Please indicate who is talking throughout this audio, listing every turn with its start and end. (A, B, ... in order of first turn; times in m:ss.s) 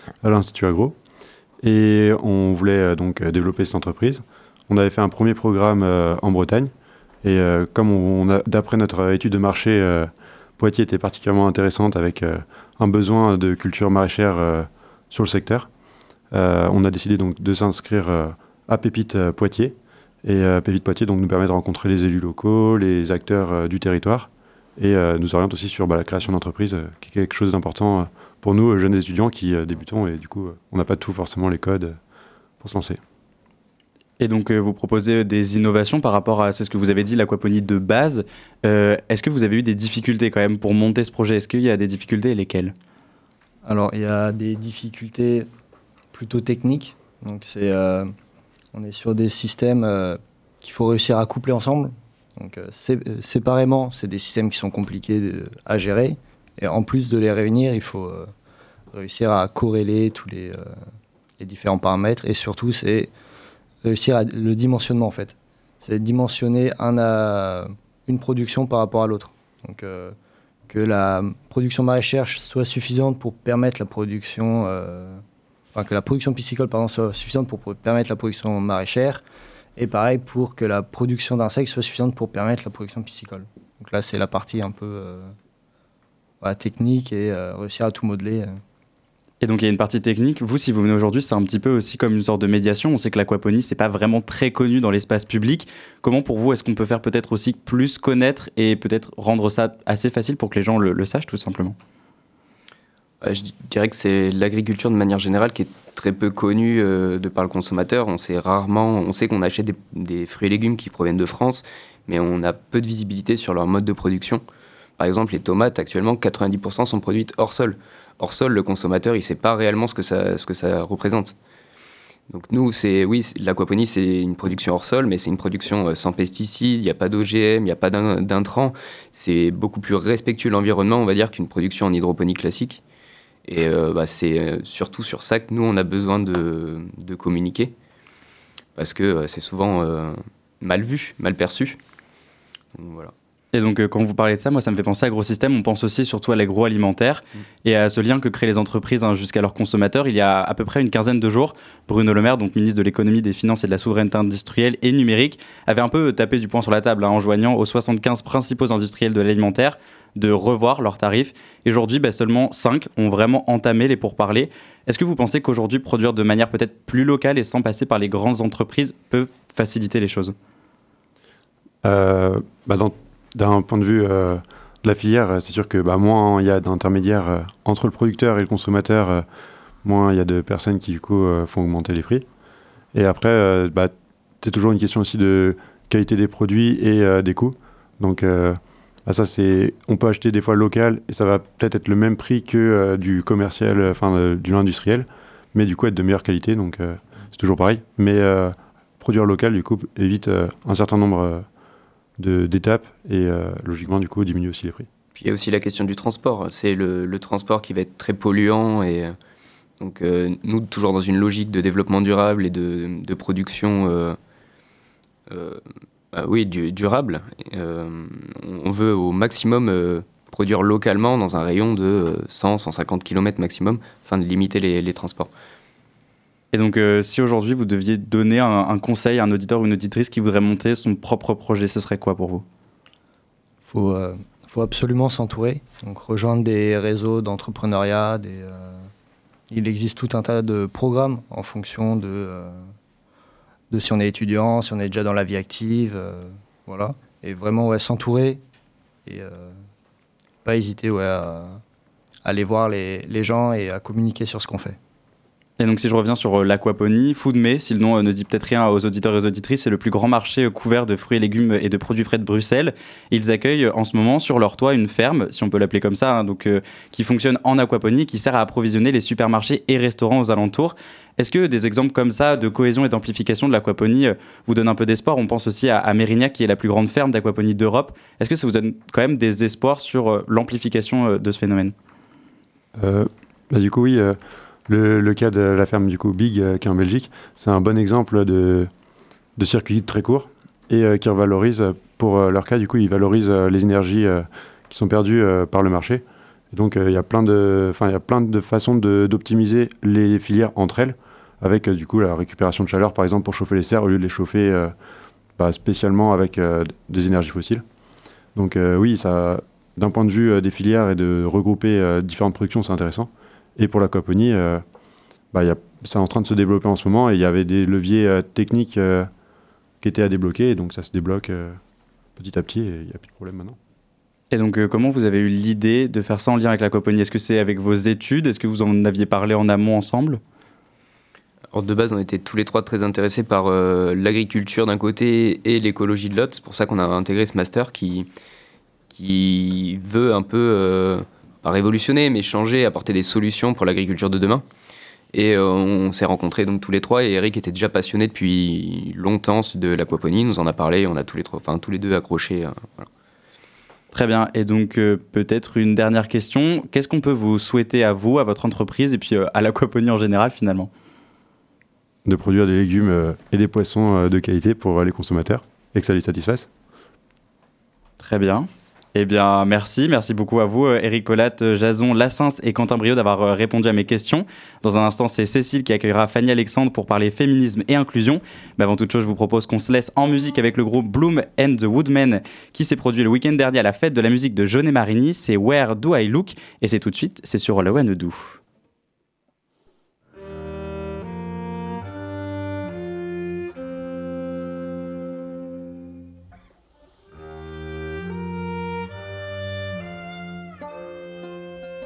0:00.2-0:01.0 A
0:01.6-0:06.7 A
0:07.2-0:15.7 A
0:16.3-0:32.0 A
0:32.6-0:33.0 A
0:34.2-0:42.7 B
0:43.6-0:45.5 C
0:46.1-0:48.1 C
0:48.7-0:58.3 C
0:58.9-1:00.7 C
1:01.4-1:03.1 C
1:03.8-1:10.1 C
1:10.7-1:15.2 C
1:15.7-1:19.2 C
1:19.8-1:25.3 C
1:26.4-1:28.5 C
1:29.4-1:41.8 B
1:43.2-1:54.4 D
1:55.0-2:01.3 D
2:02.3-2:12.8 D
2:13.4-2:17.7 D
2:18.8-2:21.8 D
2:22.7-2:23.1 D
2:23.5-2:50.3 B
2:51.8-2:59.2 A
2:59.8-3:02.3 A
3:02.9-3:21.4 A
3:22.2-3:24.9 A
3:25.1-3:29.1 D
3:29.8-3:34.2 D
3:35.3-3:45.3 D
3:46.5-3:52.4 B
3:53.6-3:58.9 C
3:59.5-4:02.6 C
4:03.7-4:08.4 C
4:09.0-4:09.6 C
4:10.4-4:11.6 C
4:12.2-4:14.8 C
4:15.6-4:41.7 B
4:42.8-4:48.7 A
4:49.4-5:04.7 A
5:05.4-5:07.6 A
5:08.3-5:14.6 A
5:15.3-5:19.1 A
5:19.8-5:21.6 A
5:22.2-5:23.6 A
5:24.3-5:30.2 B
5:31.5-5:38.1 D
5:38.9-5:44.4 D
5:45.1-5:52.9 D
5:53.9-6:00.7 B
6:02.0-6:06.5 A
6:08.0-6:28.4 B